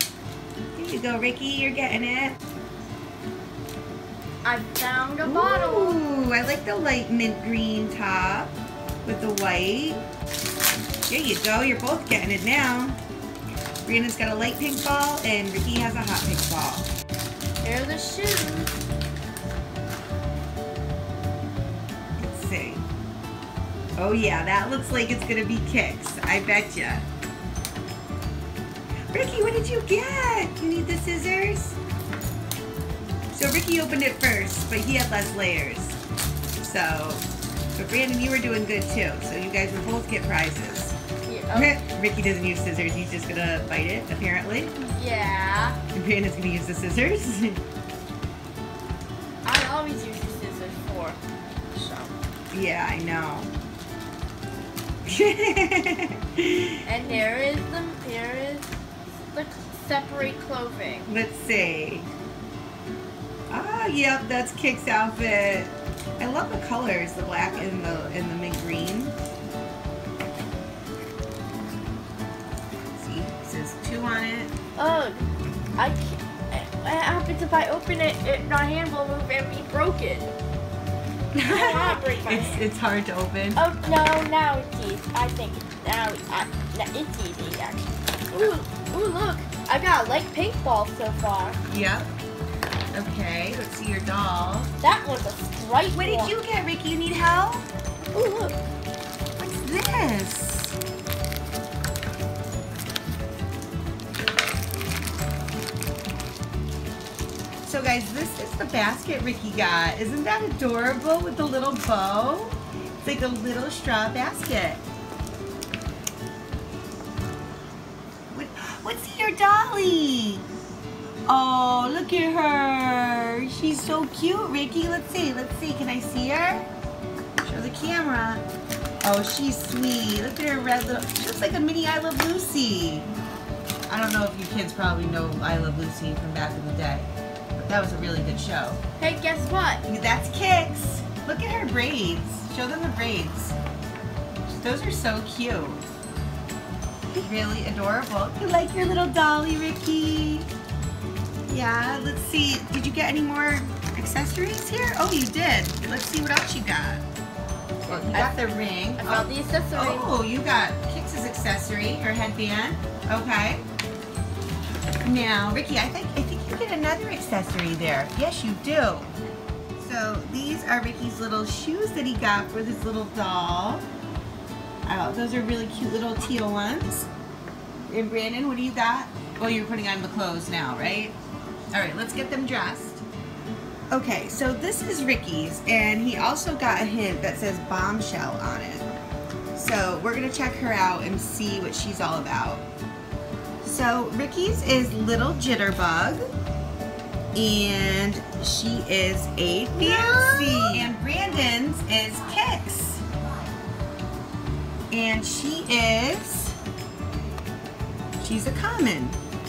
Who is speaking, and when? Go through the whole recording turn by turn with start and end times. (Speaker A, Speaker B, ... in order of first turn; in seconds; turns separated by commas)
Speaker A: 0.8-2.4, Speaker B: 4.4-6.0, Speaker A: 5.2-10.0, Speaker A: 11.1-13.0, Speaker A: 13.9-16.9, Speaker B: 17.6-18.8, Speaker A: 22.2-22.8, Speaker A: 24.0-27.1, Speaker A: 29.1-31.8, Speaker A: 33.3-36.0, Speaker A: 36.6-37.2, Speaker A: 37.8-41.0, Speaker B: 41.2-41.8, Speaker A: 41.5-44.7, Speaker B: 44.8-45.8, Speaker A: 45.9-47.6, Speaker B: 49.4-51.2, Speaker B: 51.7-52.1, Speaker A: 52.5-53.5, Speaker A: 55.1-57.2, Speaker B: 56.9-58.7, Speaker B: 59.2-61.1, Speaker A: 61.1-62.1, Speaker A: 63.5-69.2, Speaker A: 73.0-74.5, Speaker B: 74.8-80.4, Speaker A: 81.3-83.6, Speaker B: 81.5-82.6, Speaker B: 83.6-91.6, Speaker A: 91.7-92.1, Speaker A: 92.9-94.7, Speaker B: 94.8-96.3, Speaker A: 95.9-97.7, Speaker B: 98.1-98.6, Speaker A: 99.4-100.8, Speaker A: 107.7-114.8, Speaker A: 118.3-120.5, Speaker A: 121.3-126.7, Speaker A: 127.4-128.4, Speaker A: 129.0-133.1, Speaker A: 133.9-138.8, Speaker B: 139.0-139.8, Speaker A: 139.9-143.6, Speaker A: 144.5-145.8, Speaker A: 147.1-150.5, Speaker A: 151.5-157.0, Speaker B: 157.9-160.1, Speaker A: 157.9-163.6, Speaker A: 165.0-169.1, Speaker A: 169.8-173.8, Speaker A: 174.9-177.1, Speaker A: 177.9-181.2, Speaker A: 181.7-183.0, Speaker A: 183.9-188.9, Speaker A: 189.6-192.6, Speaker A: 193.6-196.2, Speaker A: 197.3-203.0, Speaker B: 199.7-200.9, Speaker A: 204.9-206.6, Speaker A: 208.2-209.2